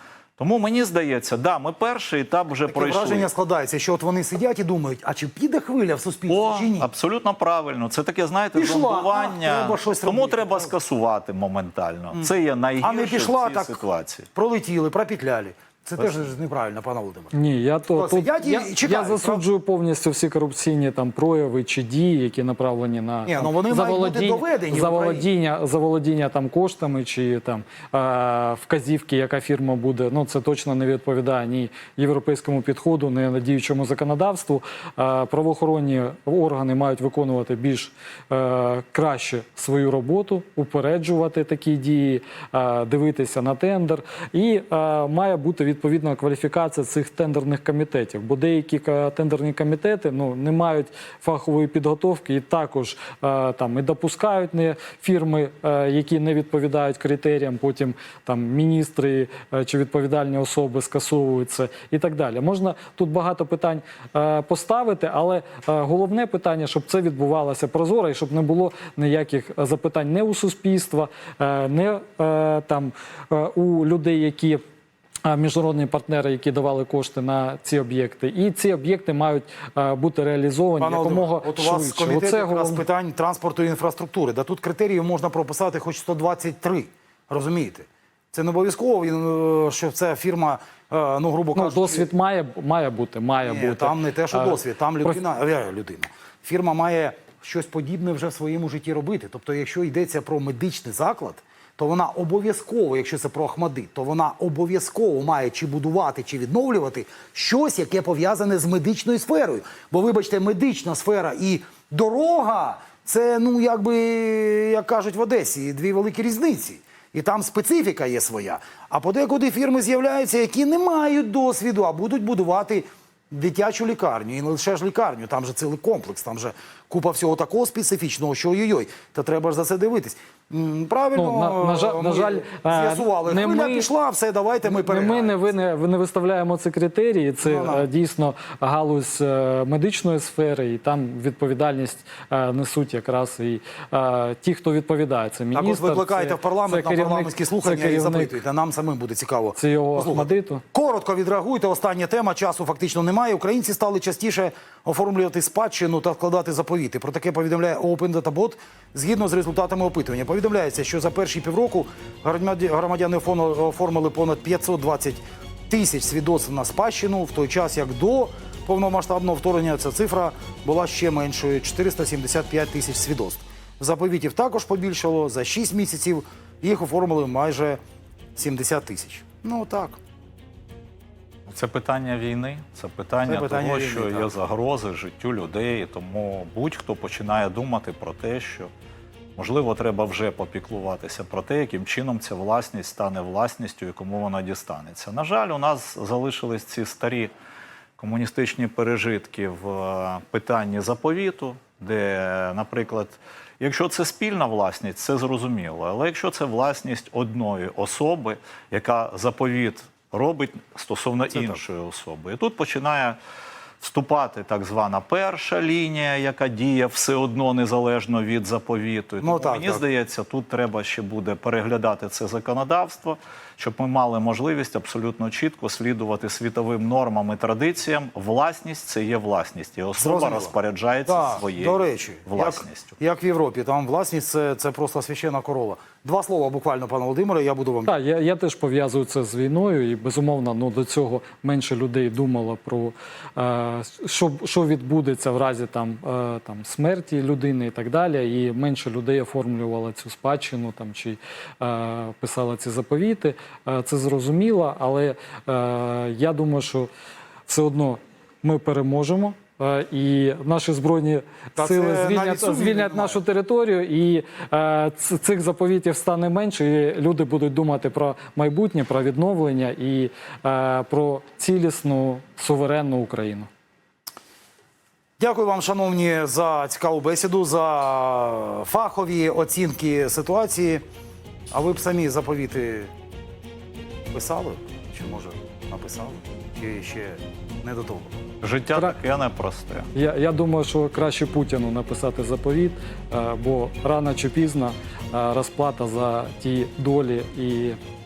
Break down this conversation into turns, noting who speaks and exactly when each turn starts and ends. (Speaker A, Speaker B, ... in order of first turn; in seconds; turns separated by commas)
Speaker A: 0.4-3.3, Speaker B: 2.7-6.9, Speaker A: 6.3-14.3, Speaker B: 8.5-10.8, Speaker B: 12.1-13.8, Speaker B: 14.3-17.3, Speaker C: 17.3-74.6, Speaker B: 17.9-19.4, Speaker B: 23.3-25.3, Speaker C: 75.3-82.8, Speaker B: 80.8-92.1, Speaker C: 91.6-95.2, Speaker B: 93.4-135.6, Speaker C: 131.2-133.9, Speaker C: 134.7-148.4, Speaker B: 137.4-137.8, Speaker B: 145.5-177.8, Speaker C: 149.6-150.6, Speaker B: 178.4-180.0, Speaker A: 181.5-188.7, Speaker B: 183.2-184.3, Speaker A: 189.4-197.3, Speaker A: 198.0-213.2, Speaker B: 211.3-211.6, Speaker A: 213.8-233.0, Speaker B: 219.2-219.9, Speaker B: 230.0-230.6, Speaker B: 231.1-238.0, Speaker C: 237.9-256.9, Speaker C: 257.5-273.5, Speaker B: 261.6-263.2, Speaker B: 275.2-280.8, Speaker B: 281.5-282.9, Speaker B: 284.1-288.2, Speaker A: 288.4-289.9, Speaker C: 289.9-297.8